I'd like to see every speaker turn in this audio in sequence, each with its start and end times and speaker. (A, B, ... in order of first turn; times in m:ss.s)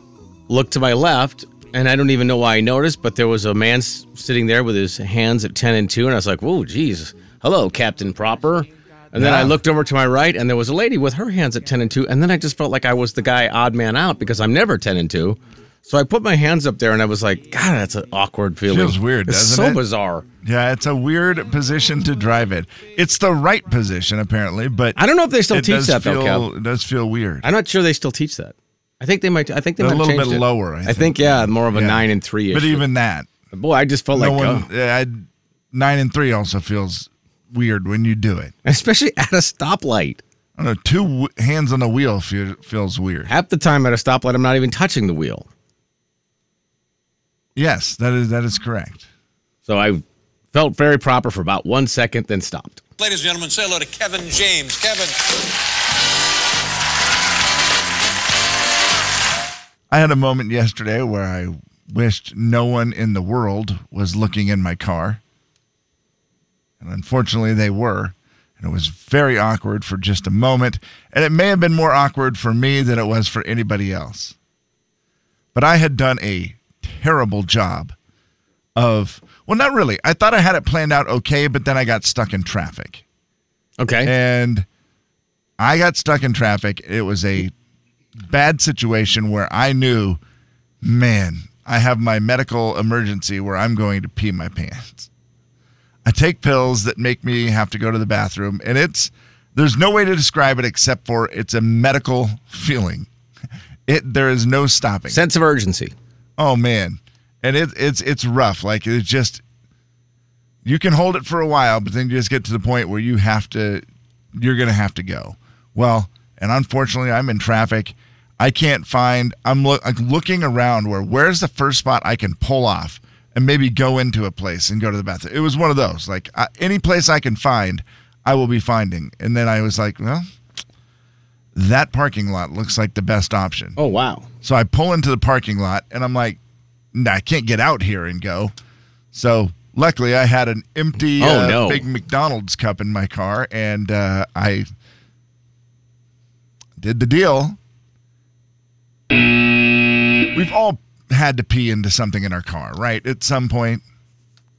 0:00.5-0:20.2 A
0:09.1-0:09.6 B
0:18.7-0:19.8 B
0:20.4-0:25.0 B
0:25.0-0:26.5 A
0:25.5-0:27.4 B
0:27.4-0:32.8 A
0:29.8-0:33.3 B
0:33.5-0:34.6 A
0:34.1-0:38.5 B
0:38.6-0:40.2 A
0:40.6-0:43.3 B
0:43.3-0:45.5 A
0:47.6-0:49.0 B
0:49.7-0:52.8 A
0:53.0-0:55.2 C
0:59.9-1:05.2 B
1:06.8-1:14.3 B
1:15.5-1:17.9 B
1:18.8-1:23.0 B
1:23.8-1:24.1 A
1:24.0-1:24.6 B
1:25.6-1:27.5 B
1:28.2-1:30.2 B
1:30.8-1:35.1 B
1:36.0-1:43.1 B
1:43.9-1:45.2 B
1:45.1-1:45.9 A
1:46.4-1:49.4 B
1:50.6-1:53.8 B
1:54.3-2:10.2 B
2:11.5-2:13.8 B
2:13.8-2:14.3 A
2:14.4-2:16.4 B
2:16.9-2:18.5 B
2:19.1-2:24.7 B
2:21.2-2:21.8 A
2:26.8-2:27.6 B
2:30.3-2:33.8 B